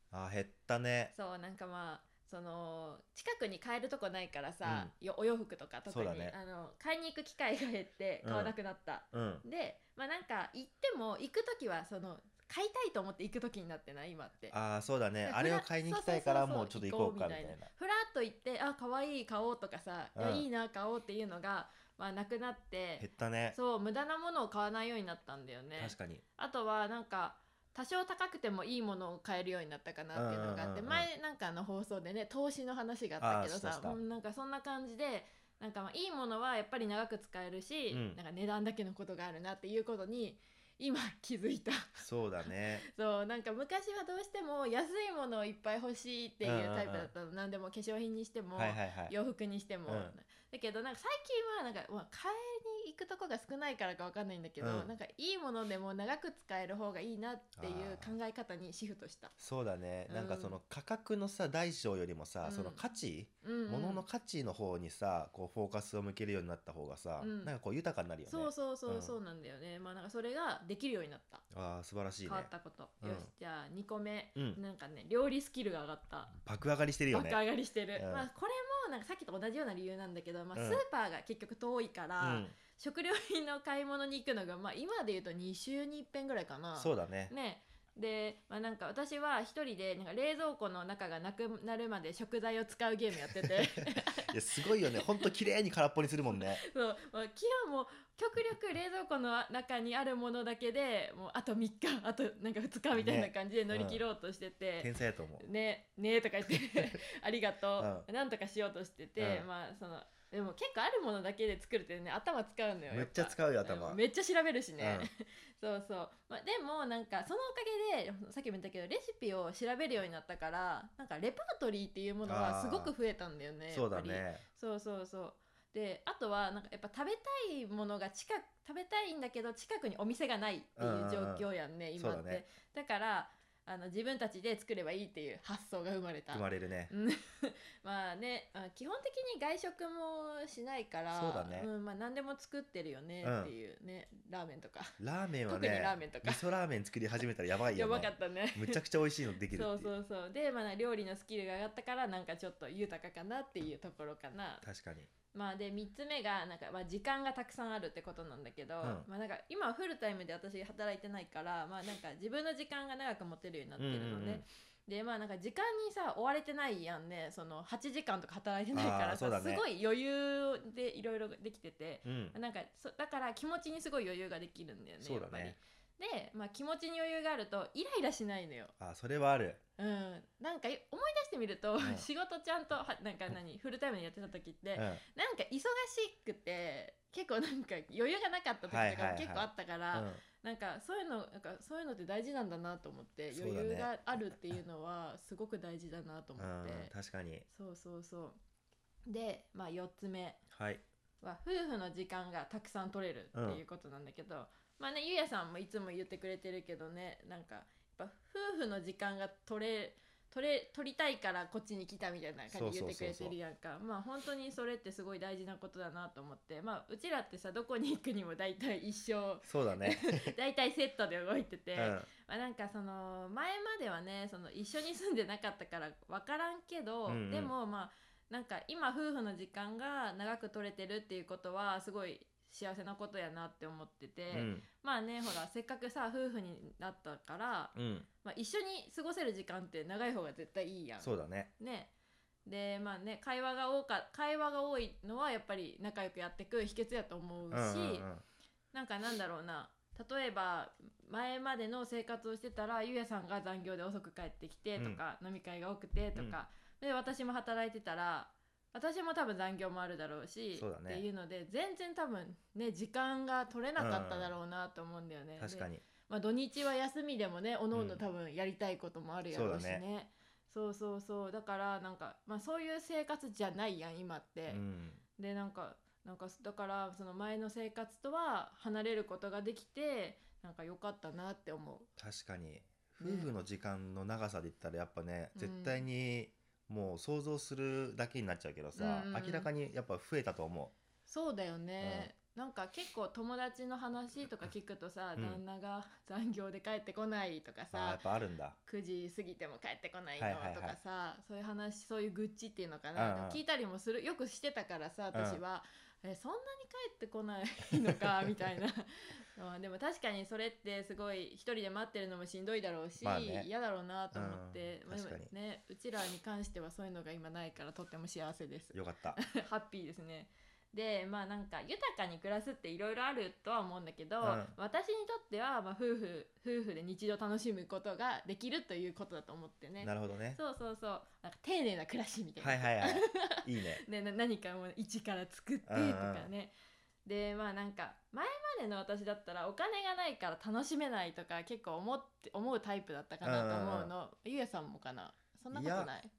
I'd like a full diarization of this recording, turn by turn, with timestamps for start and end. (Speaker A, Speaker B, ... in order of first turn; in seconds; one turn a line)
Speaker A: 0.1-1.1
Speaker B: 1.1-14.5
Speaker A: 4.7-4.9
Speaker A: 5.9-6.3
Speaker A: 8.2-8.5
Speaker A: 9.1-9.4
Speaker A: 14.5-17.7
Speaker B: 15.2-59.3
Speaker A: 20.1-20.4
Speaker A: 23.0-23.6
Speaker A: 25.8-26.2
Speaker A: 30.1-31.1
Speaker A: 33.2-34.0
Speaker A: 37.9-38.2
Speaker A: 42.0-42.8
Speaker A: 46.4-47.1
Speaker A: 48.5-49.1
Speaker A: 49.9-50.1
Speaker A: 54.6-54.9
Speaker A: 57.6-58.1
Speaker A: 59.4-69.1
Speaker B: 60.1-60.6
Speaker B: 62.4-62.8
Speaker B: 63.4-64.0
Speaker B: 67.2-67.5
Speaker B: 68.2-71.4
Speaker A: 71.5-72.5
Speaker B: 72.2-76.3
Speaker A: 73.0-73.3
Speaker A: 76.4-77.4
Speaker B: 77.1-95.3
Speaker A: 78.0-78.3
Speaker A: 80.5-80.8
Speaker A: 82.2-82.5
Speaker A: 86.7-87.3
Speaker A: 94.2-96.6
Speaker B: 96.3-146.4
Speaker A: 102.9-104.0
Speaker A: 104.8-105.5
Speaker A: 107.8-108.1
Speaker A: 109.2-109.5
Speaker A: 112.9-114.0
Speaker A: 114.8-115.1
Speaker A: 122.2-122.9
Speaker A: 123.7-124.4
Speaker A: 130.8-131.4
Speaker A: 132.0-132.4
Speaker A: 136.3-136.9
Speaker A: 141.1-141.7
Speaker A: 143.2-143.5
Speaker A: 145.0-149.9
Speaker B: 147.7-148.8
Speaker B: 149.5-154.6
Speaker A: 154.6-155.1
Speaker B: 155.3-178.7
Speaker A: 158.8-159.1
Speaker A: 163.8-164.4
Speaker A: 168.7-169.6
Speaker A: 172.0-172.3
Speaker A: 175.0-175.6
Speaker A: 178.8-179.6
Speaker B: 179.8-196.9
Speaker A: 181.8-182.1
Speaker A: 184.7-185.0
Speaker A: 188.7-190.2
Speaker A: 193.3-193.9
Speaker A: 196.4-197.4
Speaker B: 197.5-198.4
Speaker B: 199.1-200.4
Speaker A: 200.5-200.8
Speaker B: 201.2-241.9
Speaker A: 203.3-203.6
Speaker A: 212.5-213.4
Speaker A: 219.4-220.3
Speaker A: 221.8-222.1
Speaker A: 227.1-227.5
Speaker A: 234.3-234.7
Speaker A: 237.7-238.1
Speaker A: 241.0-241.5
Speaker B: 242.4-248.1
Speaker A: 247.5-248.2
Speaker B: 248.7-274.6
Speaker A: 256.1-256.4
Speaker A: 260.6-261.0
Speaker A: 263.8-264.3
Speaker A: 265.4-265.8
Speaker A: 267.7-268.0
Speaker A: 269.3-269.8
Speaker A: 274.5-275.0
Speaker B: 275.2-281.9
Speaker A: 282.0-290.7
Speaker B: 283.0-283.3
Speaker B: 285.3-285.8
Speaker B: 288.8-289.5
Speaker B: 291.1-298.0
Speaker A: 291.8-292.1
Speaker A: 295.1-295.4
Speaker A: 297.7-298.6
Speaker B: 298.7-336.5
Speaker A: 300.2-300.8
Speaker A: 302.9-303.4
Speaker A: 305.1-305.4
Speaker A: 313.0-313.5
Speaker A: 314.1-315.3
Speaker A: 318.7-319.2
Speaker A: 324.2-324.5
Speaker A: 329.8-330.4
Speaker A: 332.4-333.8
Speaker A: 335.7-336.3
Speaker B: 337.1-346.1
Speaker A: 343.2-343.9
Speaker A: 345.5-345.9